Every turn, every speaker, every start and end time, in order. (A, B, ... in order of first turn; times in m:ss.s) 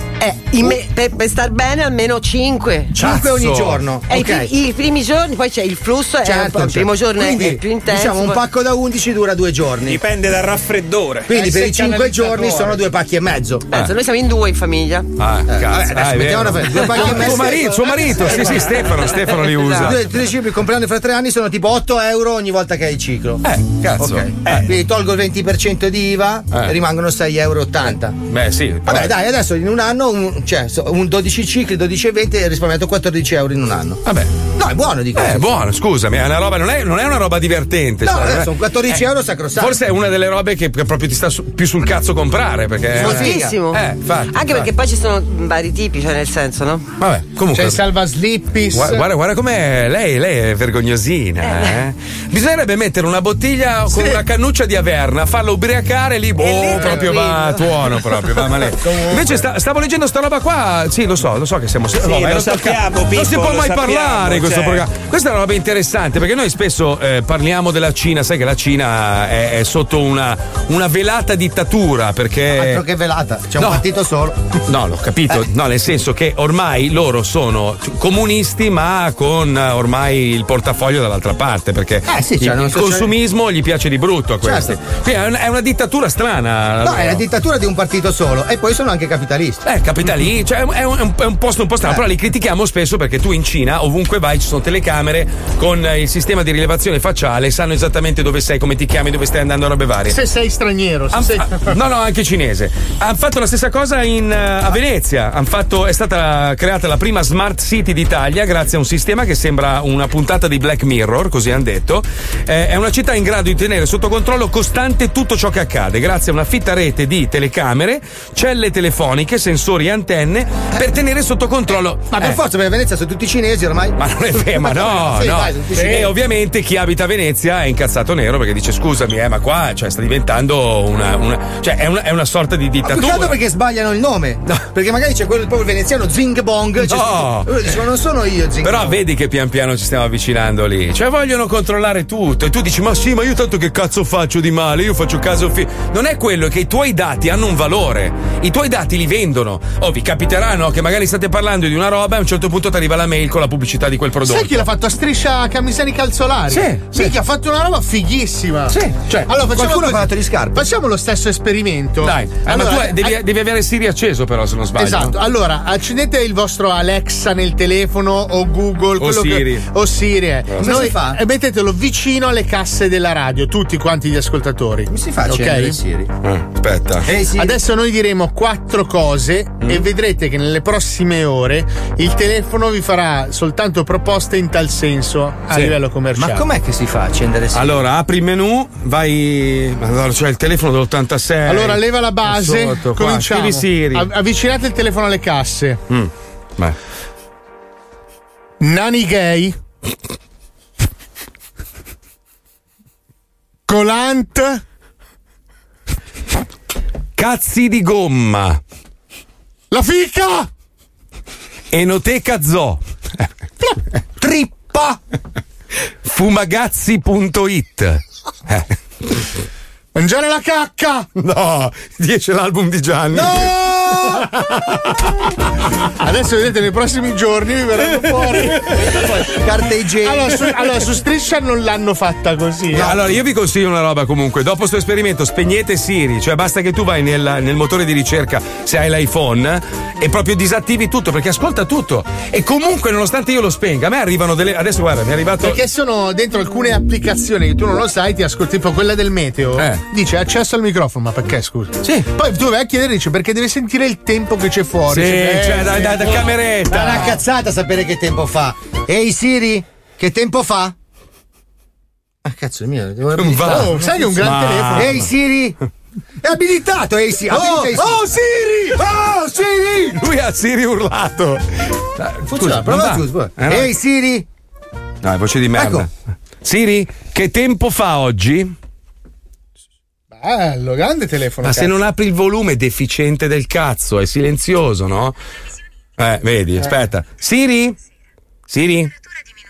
0:00.2-0:03.0 A
0:02.9-0:04.5 B
0:03.0-0:03.8 C
0:04.1-0:08.4 A
0:06.2-0:10.0 B
0:09.9-0:11.5 D
0:11.3-0:13.7 B
0:11.5-0:12.7 E
0:13.7-0:15.1 A
0:15.2-0:20.1 C
0:15.5-0:18.8 B
0:19.5-0:19.8 A
0:19.8-0:28.2 B
0:23.4-0:24.7 C
0:28.3-0:29.2 C
0:28.9-0:34.0 B
0:34.0-0:34.3 C
0:34.6-0:35.5 B
0:35.2-0:39.0 C
0:38.0-0:39.8 B
0:39.6-0:44.7 C
0:42.9-0:43.6 B
0:43.0-0:46.9 A
0:47.0-0:47.8 C
0:47.5-0:49.0 E
0:48.7-1:12.8 C
1:02.0-1:04.8 D
1:12.5-1:14.5 B
1:14.7-1:27.2 C
1:22.1-1:23.1 B
1:24.4-1:24.8 B
1:26.8-1:29.6 B
1:29.6-1:40.2 C
1:40.1-1:41.8 E
1:41.1-2:02.4 C
2:02.1-2:06.1 B
2:04.0-2:13.4 C
2:12.8-2:19.0 B
2:16.8-2:17.6 C
2:18.6-2:34.7 C
2:34.2-2:38.8 E
2:36.5-2:37.1 C
2:38.7-2:39.3 C
2:39.3-2:43.2 E
2:39.5-2:40.6 B
2:42.0-2:45.2 C
2:44.8-2:55.8 E
2:49.0-2:49.7 C
2:50.5-2:50.8 C
2:50.6-2:51.2 B
2:54.9-2:56.1 B
2:56.2-2:57.1 C
2:57.0-2:57.6 B
2:57.4-3:06.5 E
3:06.2-3:07.8 B
3:07.5-3:14.1 C
3:11.5-3:15.8 E
3:15.9-3:16.8 C
3:18.6-3:19.6 E
3:23.7-3:24.6 E
3:27.2-3:28.6 C
3:29.7-3:30.5 E
3:31.7-3:33.3 C
3:34.2-3:35.0 B
3:36.0-3:38.7 C
3:40.0-3:41.1 E
3:41.2-3:43.5 C
3:43.1-3:44.3 B
3:46.0-3:48.7 E
3:48.9-3:50.4 B
3:50.0-3:52.9 E
3:52.7-3:53.0 B
3:52.8-4:05.6 C
4:05.4-4:16.3 E
4:09.6-4:09.8 C
4:14.9-4:17.2 C
4:16.7-4:20.8 B
4:22.2-4:24.0 B
4:23.2-4:25.1 C
4:23.4-4:25.0 E
4:24.8-4:25.6 B
4:26.2-4:28.1 B
4:27.3-4:28.8 E
4:30.0-4:31.4 C
4:32.0-4:33.7 C
4:32.3-4:34.3 B
4:35.0-4:35.9 C
4:35.6-4:35.9 B
4:36.4-4:38.5 C
4:40.1-4:41.8 E
4:41.4-4:45.2 C
4:46.0-4:47.8 C
4:48.5-4:48.9 C